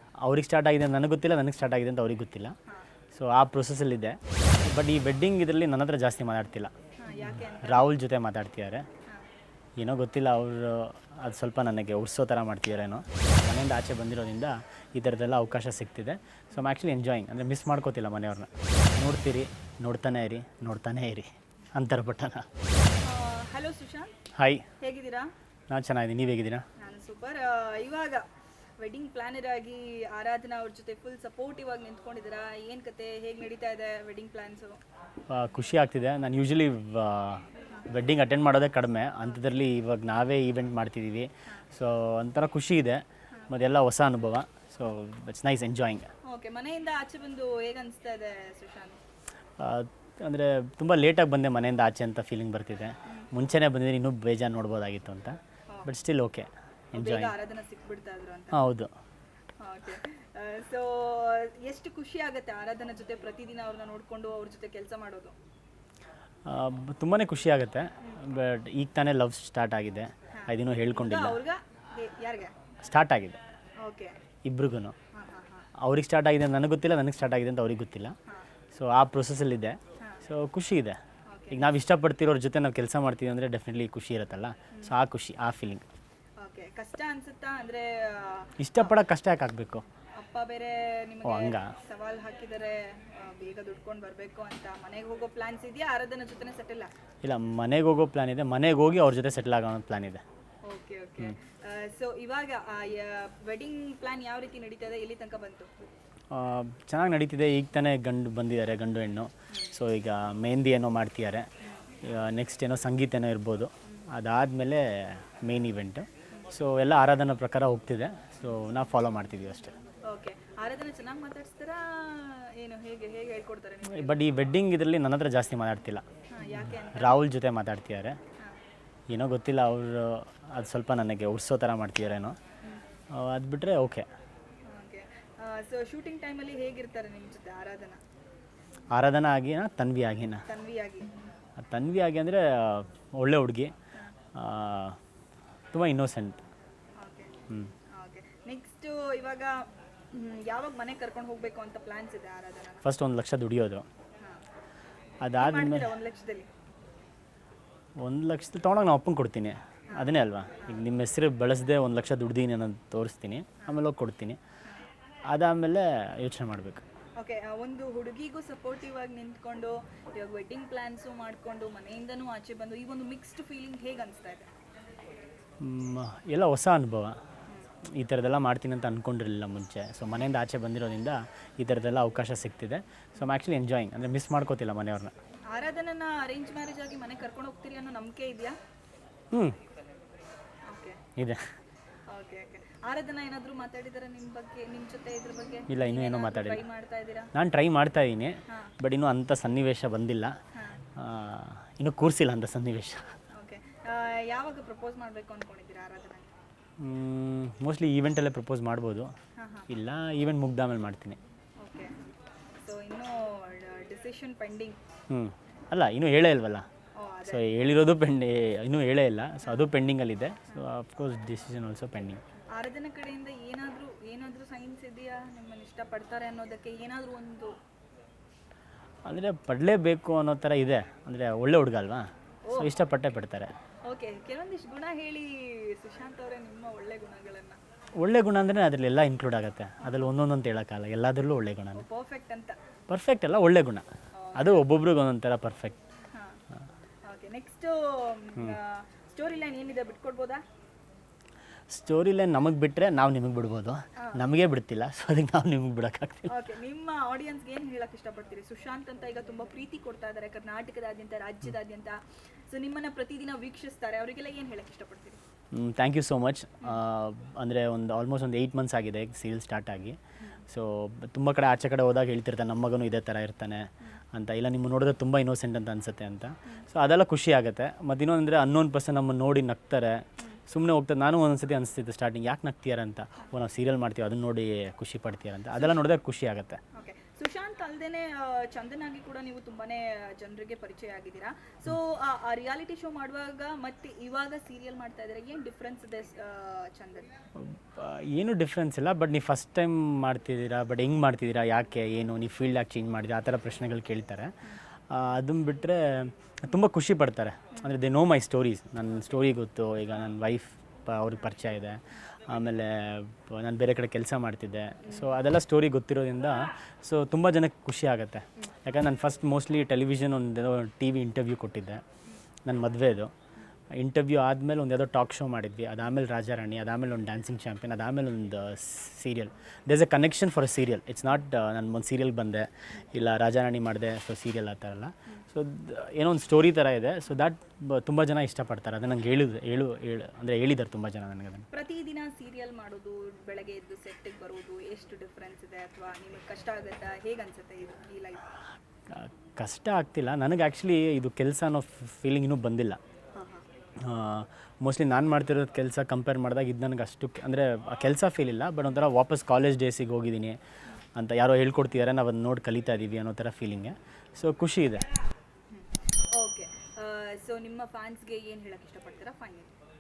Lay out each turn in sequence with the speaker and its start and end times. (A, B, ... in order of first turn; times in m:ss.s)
0:00.2-0:02.6 A
0:03.1-0:06.7 A
0:07.0-0:07.9 B
0:07.2-0:08.9 A
0:09.8-0:22.5 A
0:23.0-0:24.1 B
0:24.3-0:24.7 A
0:24.8-0:25.3 B
0:25.7-0:26.7 A
0:26.8-0:28.2 B
0:28.8-0:34.8 B
0:35.3-0:46.1 A
0:46.2-0:49.0 B
0:49.6-0:57.3 A
0:57.0-0:58.6 B
0:58.5-0:58.9 A
0:59.6-1:05.4 B
1:06.5-1:11.4 A
1:10.3-1:12.5 B
1:12.8-1:13.4 A
1:13.8-1:14.2 B
1:14.4-1:15.0 A
1:15.1-1:15.7 B
1:15.8-1:18.2 A
1:18.7-1:21.0 A
1:21.3-1:21.6 B
1:21.5-1:25.8 A
1:26.4-1:28.9 B
1:28.6-1:29.8 A
1:30.2-1:37.0 B
1:31.2-1:31.7 A
1:37.2-1:40.2 A
1:40.6-1:45.9 B
1:46.3-1:51.5 A
1:49.5-1:49.8 B
1:51.6-1:51.9 B
1:52.0-1:59.8 A
2:00.1-2:04.3 B
2:03.9-2:06.0 A
2:06.3-2:07.2 B
2:06.9-2:08.2 A
2:09.1-2:12.4 A
2:13.1-2:14.1 A
2:14.6-2:18.0 B
2:18.9-2:20.5 A
2:20.5-2:21.1 B
2:21.6-2:23.7 A
2:24.3-2:25.0 A
2:25.7-2:26.4 A
2:27.0-2:27.4 B
2:27.9-2:32.8 B
2:32.8-2:33.9 A
2:35.2-2:35.9 A
2:35.4-2:36.5 B
2:38.0-2:44.4 A
2:39.9-2:40.8 B
2:45.3-2:46.8 A
2:47.2-2:54.5 B
2:55.6-2:57.2 A
2:57.8-3:05.1 A
3:05.5-3:08.6 B
3:09.3-3:09.6 A
3:10.7-3:11.0 B
3:11.2-3:11.5 A
3:12.1-3:17.3 B
3:15.7-3:16.6 A
3:17.3-3:20.4 A
3:18.5-3:18.7 B
3:20.5-3:20.8 B
3:21.0-3:23.2 A
3:23.3-3:26.4 B
3:26.8-3:29.1 A
3:29.4-3:29.7 B
3:29.7-3:31.2 A
3:31.6-3:34.8 B
3:35.1-3:36.7 A
3:37.0-3:37.4 B
3:37.3-3:42.2 A
3:42.6-3:47.6 B
3:49.1-3:53.6 A
3:52.4-3:52.7 B
3:53.9-3:57.6 B
3:58.0-4:01.8 A
4:01.8-4:02.6 B
4:02.9-4:05.8 A
4:04.1-4:04.7 B
4:06.1-4:06.4 B
4:07.0-4:10.4 B
4:11.7-4:16.3 A
4:14.0-4:14.2 B
4:16.3-4:25.2 B
4:25.5-4:46.6 A
4:30.2-4:30.4 B
4:45.6-4:45.8 B
4:46.7-4:57.1 B
4:57.4-5:04.4 A
5:04.9-5:21.8 A
5:14.8-5:15.1 B
5:22.4-5:23.1 A
5:23.7-5:41.5 A
5:41.5-5:48.3 B
5:48.9-5:52.8 A
5:53.1-5:53.5 B
5:53.8-6:00.4 A
6:01.0-6:04.9 A
6:05.5-6:09.5 B